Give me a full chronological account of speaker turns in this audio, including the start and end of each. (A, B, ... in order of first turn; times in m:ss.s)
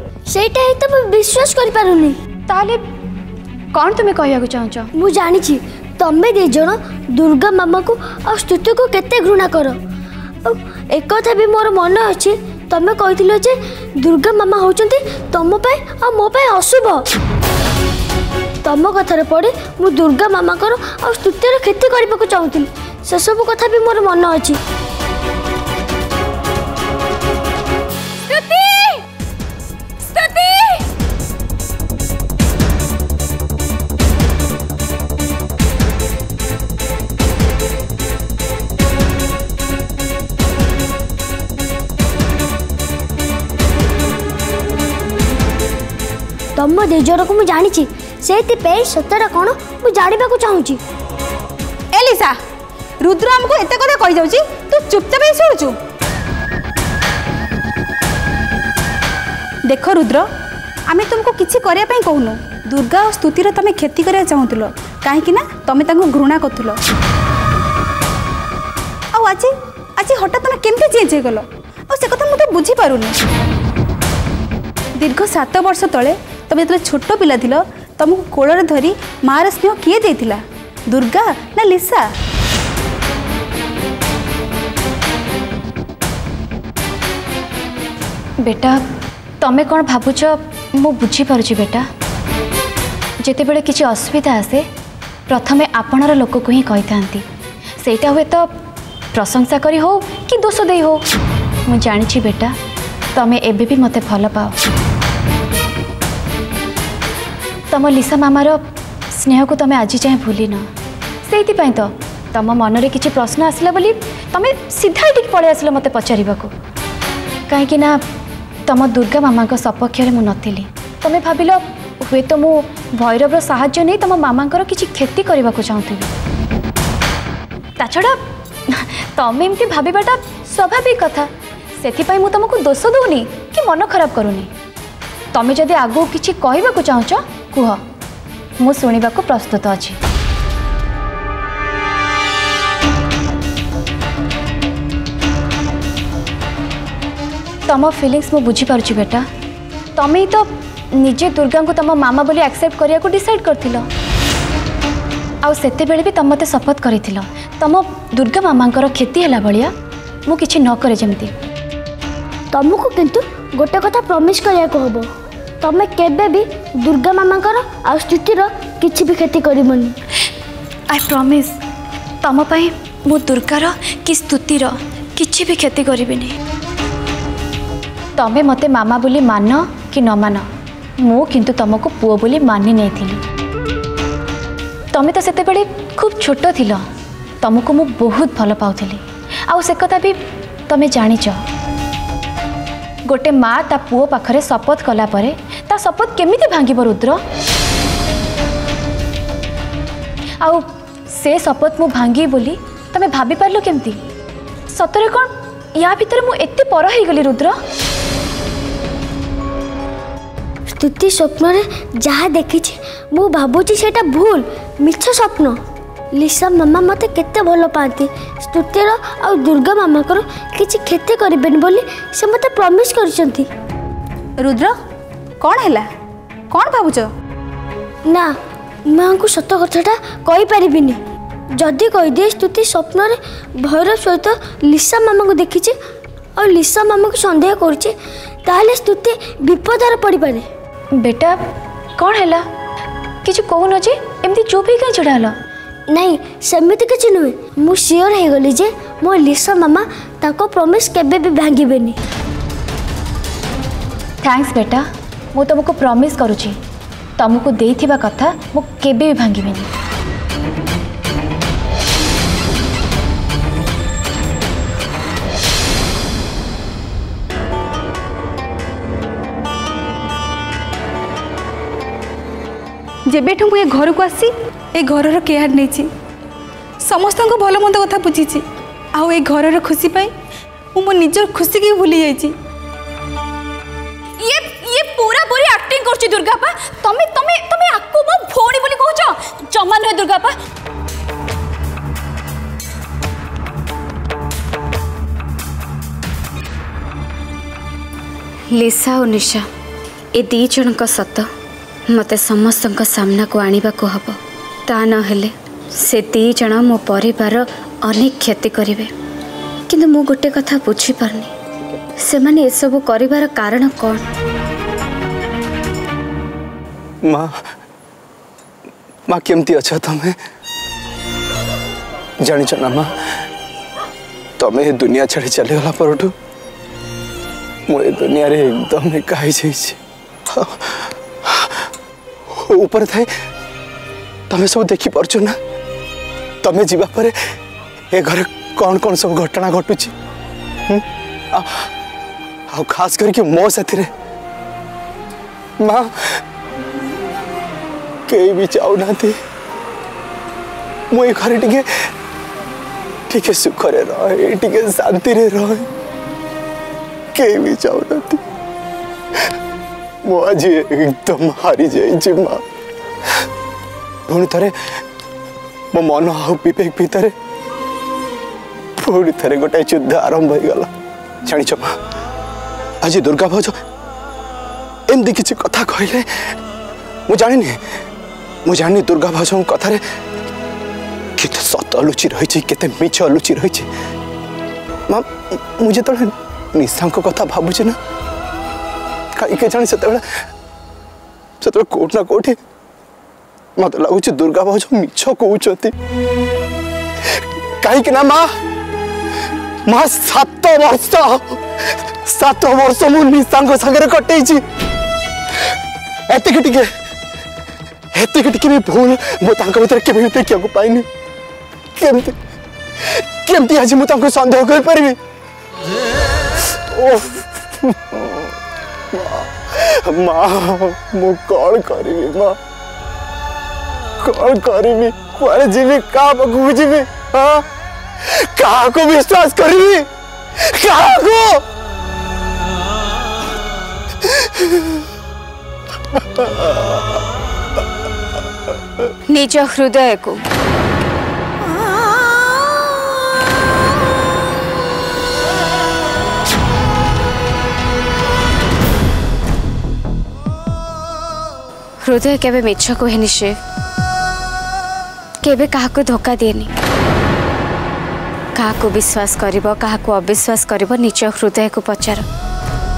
0:00.3-0:02.2 A
0:02.5-0:02.8 B
0:03.7-0:04.9 B
0:05.0-0:09.8 A
0:10.4-0:17.1 A
0:18.6-0:24.6 A
0:28.3-0:29.0 C
0:30.2-0:30.7 A
0:30.3-0:30.6 C
0:46.6-0:50.8 A
0:51.9-0:52.3 C
0:53.0-0:55.8 C
0:59.7-1:00.2 C
1:00.9-1:06.8 C
1:09.1-1:13.2 C
1:15.0-1:22.0 C
1:28.4-1:28.8 B
1:29.4-1:31.8 B
1:33.2-1:34.6 B
1:35.3-1:37.2 B
1:37.8-1:38.5 B
1:39.1-1:41.0 B
1:41.7-1:42.5 B
1:43.1-1:44.6 B
1:47.7-1:48.6 B
1:49.1-1:50.6 B
1:51.3-1:56.5 B
1:57.5-1:58.0 B
1:58.7-2:06.1 B
2:07.8-2:08.2 B
2:08.7-2:11.3 B
2:11.8-2:14.5 B
2:15.3-2:17.8 B
2:18.6-2:20.0 B
2:27.7-2:29.2 B
2:30.0-2:30.5 B
2:31.0-2:33.8 B
2:35.4-2:39.7 B
2:40.3-2:41.3 B
2:42.5-2:45.1 A
2:45.6-2:49.9 A
2:50.9-2:51.5 B
2:52.2-2:56.3 B
2:58.2-3:00.4 B
3:01.0-3:03.2 B
3:04.9-3:06.8 B
3:07.4-3:10.2 B
3:10.7-3:11.4 B
3:13.1-3:17.2 B
3:20.4-3:24.0 B
3:24.7-3:27.6 B
3:30.7-3:35.6 A
3:36.1-3:43.5 A
3:44.4-3:44.7 C
3:45.4-3:45.9 C
3:46.5-3:47.1 C
3:48.9-3:51.0 A
3:51.6-3:55.7 A
3:56.4-3:57.9 A
3:58.4-4:00.4 A
4:01.0-4:01.4 B
4:02.0-4:02.4 B
4:03.2-4:05.3 B
4:05.9-4:12.0 A
4:14.2-4:16.6 B
4:17.2-4:19.7 B
4:33.1-4:35.9 C
4:36.8-4:38.4 C
4:38.9-4:40.1 C
4:40.7-4:42.3 C
4:44.2-4:50.3 C
4:58.5-4:59.5 D
5:00.1-5:01.3 D
5:01.9-5:08.9 D
5:09.7-5:11.3 D
5:12.0-5:14.0 D
5:17.0-5:17.3 E
5:19.1-5:20.1 E
5:22.2-5:22.9 E
5:24.4-5:26.1 E
5:27.7-5:29.8 E
5:30.4-5:30.7 E
5:32.3-5:33.1 E
5:34.3-5:35.4 E
5:36.4-5:37.1 E
5:37.9-5:39.9 E
5:41.3-5:41.6 E
5:42.5-5:43.9 E
5:45.6-5:45.9 E
5:48.1-5:49.1 E
5:50.9-5:51.6 E
5:53.1-5:55.6 E
5:57.1-5:58.2 E
6:00.1-6:02.4 E
6:04.1-6:04.5 E
6:05.7-6:07.1 E
6:08.8-6:10.7 E
6:11.2-6:11.7 E
6:12.8-6:13.5 E
6:14.9-6:16.0 E
6:17.1-6:17.6 E
6:18.4-6:19.8 E
6:21.2-6:23.7 E
6:25.6-6:27.8 E
6:29.2-6:30.0 E
6:31.4-6:32.4 E
6:33.6-6:35.7 E
6:37.6-6:38.2 E
6:39.7-6:41.4 E
6:42.0-6:44.4 E
6:46.1-6:46.7 E
6:47.9-6:50.8 E
6:51.8-6:52.1 E
6:53.2-6:55.0 E
6:56.7-6:58.3 E
6:58.9-7:02.4 E
7:04.0-7:07.4 E
7:08.1-7:09.8 E
7:10.5-7:11.4 E
7:14.0-7:14.6 E
7:19.1-7:20.2 D
7:31.8-7:33.4 D
7:35.2-7:36.5 D
7:38.4-7:42.0 D